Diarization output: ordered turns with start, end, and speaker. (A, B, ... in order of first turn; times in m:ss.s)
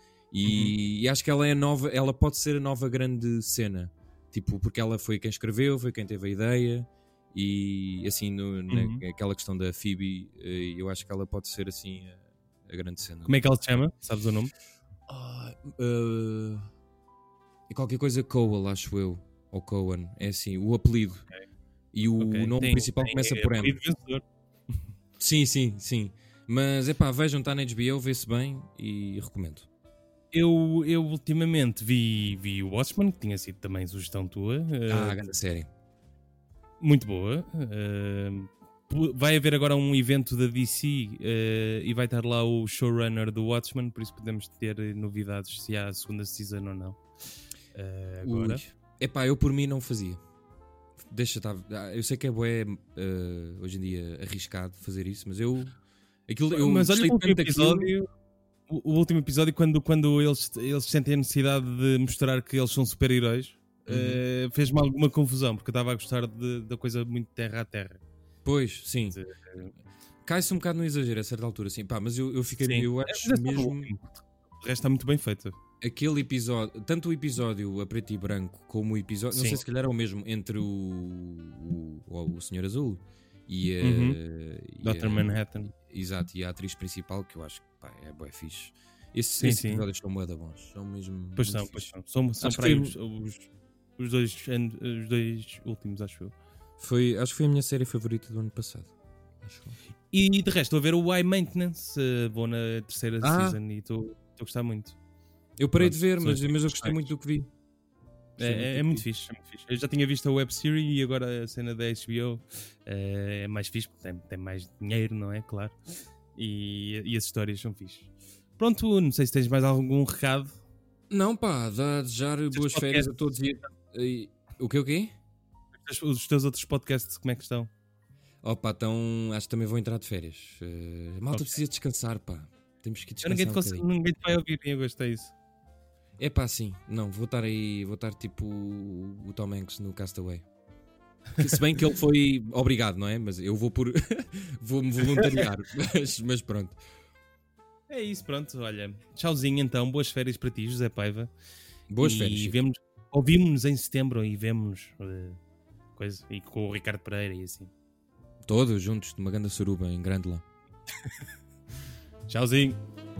0:00.3-0:13.4 A
0:00.4-0:00.7 B
0:08.7-0:09.0 B
0:13.3-0:14.5 B
0:15.1-0:16.7 A
0:17.7-0:21.2 A
0:21.9-0:23.8 A
0:22.2-0:24.2 B
0:25.2-0:29.7 A
0:30.3-0:35.2 B
0:34.9-0:35.7 A
0:36.8-0:47.0 B
0:47.7-0:48.6 B
0:48.2-0:50.2 A
0:51.0-0:55.7 A
0:56.3-0:57.9 A
0:56.5-0:58.1 B
0:58.7-1:08.0 B
1:03.9-1:04.2 A
1:08.4-1:09.2 A
1:09.1-1:09.7 B
1:10.2-1:13.9 A
1:12.6-1:15.6 B
1:15.8-1:31.9 A
1:19.3-1:19.6 B
1:23.8-1:24.2 B
1:24.8-1:25.7 B
1:29.4-1:29.8 B
1:31.4-1:36.3 B
1:32.4-1:32.9 A
1:36.8-1:39.8 A
1:40.1-1:45.0 B
1:43.2-1:43.6 A
1:45.6-1:47.5 A
1:45.8-1:47.1 B
1:48.4-1:49.0 A
1:48.4-1:55.8 B
1:56.4-2:00.6 B
2:01.1-2:05.1 A
2:02.5-2:03.3 B
2:05.8-2:07.7 B
2:08.4-2:13.8 A
2:11.3-2:11.6 B
2:13.2-2:15.3 B
2:16.2-2:20.4 A
2:21.4-2:26.8 A
2:27.9-2:31.3 B
2:31.9-2:32.6 A
2:32.0-2:35.4 B
2:36.0-2:37.7 B
2:38.4-2:40.4 A
2:42.3-2:42.8 B